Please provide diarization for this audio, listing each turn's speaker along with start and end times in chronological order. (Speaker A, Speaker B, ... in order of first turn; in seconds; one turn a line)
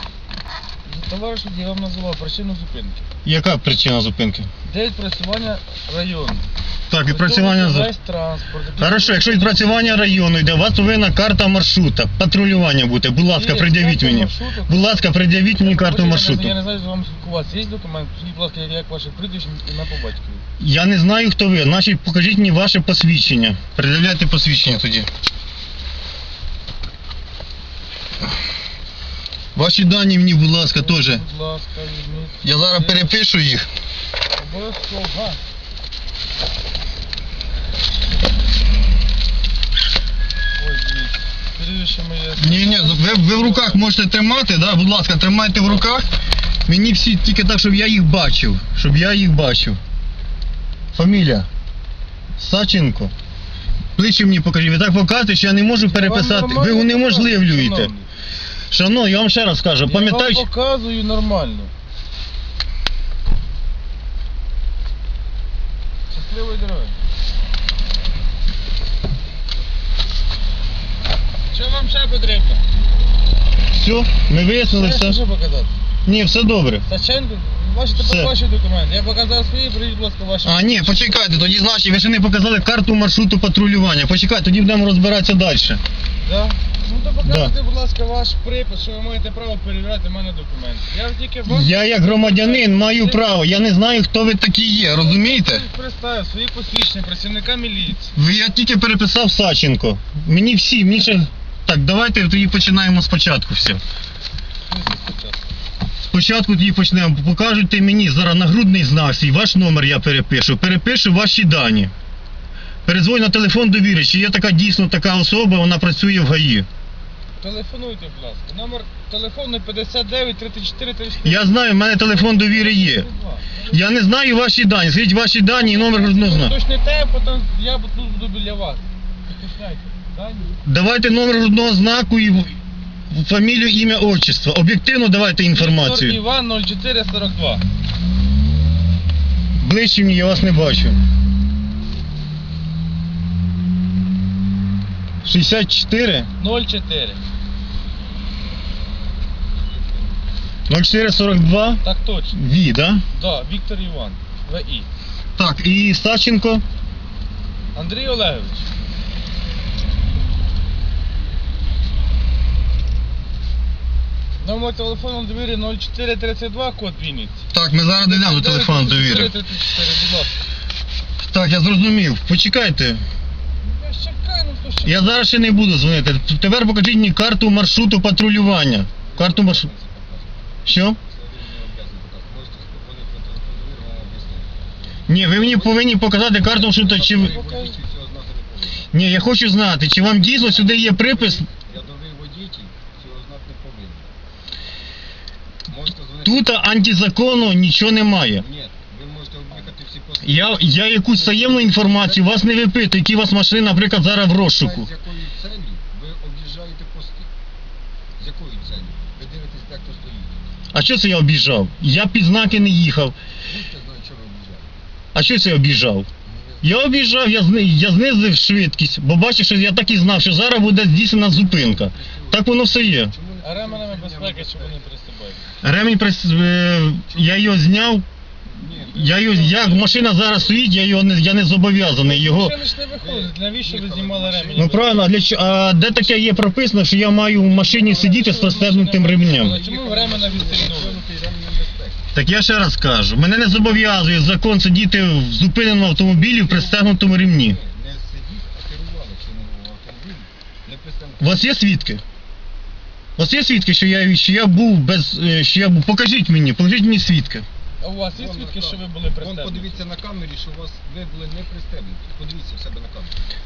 Speaker A: 0.8-3.0
Speaker B: 3.2-4.5
Speaker A: 4.7-6.4
Speaker B: 6.9-7.9
Speaker A: 7.1-10.1
Speaker B: 8.8-16.5
Speaker A: 13.3-20.4
Speaker B: 20.6-25.1
Speaker B: 29.6-31.2
Speaker A: 30.7-33.1
Speaker B: 32.4-33.7
Speaker A: 34.4-35.4
Speaker A: 40.6-43.9
Speaker B: 42.4-46.1
Speaker B: 46.7-49.8
Speaker B: 50.9-51.5
Speaker B: 52.4-53.1
Speaker B: 54.0-57.9
Speaker A: 55.7-58.1
Speaker B: 58.7-60.5
Speaker A: 59.8-61.7
Speaker A: 66.1-67.0
Speaker A: 71.5-72.6
Speaker B: 73.7-75.2
Speaker A: 74.6-75.7
Speaker B: 76.0-76.8
Speaker A: 76.8-81.5
Speaker B: 77.9-78.3
Speaker B: 80.4-85.8
Speaker A: 86.2-93.3
Speaker B: 87.2-87.5
Speaker B: 91.5-95.7
Speaker A: 94.9-98.1
Speaker B: 98.2-103.8
Speaker A: 104.7-105.4
Speaker B: 106.1-111.9
Speaker B: 112.8-116.7
Speaker A: 117.4-123.8
Speaker B: 121.2-123.1
Speaker B: 123.7-126.5
Speaker A: 125.5-130.5
Speaker B: 130.6-132.6
Speaker B: 133.1-136.2
Speaker A: 135.5-137.6
Speaker B: 139.6-141.0
Speaker B: 145.2-146.3
Speaker A: 146.4-147.2
Speaker B: 150.7-151.8
Speaker A: 151.8-152.3
Speaker B: 152.3-153.0
Speaker A: 153.1-154.9
Speaker B: 155.4-156.6
Speaker A: 157.7-158.7
Speaker A: 164.4-167.4
Speaker B: 167.5-169.3
Speaker A: 168.0-170.4
Speaker B: 171.2-173.0
Speaker A: 173.6-175.2
Speaker B: 174.8-179.7
Speaker C: 179.0-180.4
Speaker B: 180.7-181.0
Speaker C: 181.0-184.5
Speaker B: 185.1-187.4
Speaker C: 185.3-185.8
Speaker C: 186.4-188.9
Speaker A: 187.0-187.8
Speaker B: 188.9-191.5
Speaker C: 190.2-194.1
Speaker C: 195.7-196.7
Speaker B: 196.2-198.4
Speaker C: 198.3-202.5
Speaker B: 200.2-204.9
Speaker C: 204.5-207.3
Speaker C: 208.2-210.5
Speaker B: 210.7-213.1
Speaker C: 213.4-214.8
Speaker B: 215.1-216.1
Speaker C: 216.2-216.7
Speaker B: 216.6-223.1
Speaker C: 220.8-224.8
Speaker A: 223.4-225.4
Speaker B: 225.6-228.0
Speaker C: 227.1-227.5
Speaker C: 228.5-230.6
Speaker B: 228.8-232.6
Speaker A: 232.0-234.9
Speaker C: 233.0-235.1
Speaker B: 234.6-239.6
Speaker A: 237.7-241.0
Speaker C: 239.3-242.1
Speaker B: 242.1-247.6
Speaker C: 245.9-251.5
Speaker B: 251.2-252.0
Speaker B: 253.2-257.4
Speaker A: 257.8-259.8
Speaker C: 258.1-263.2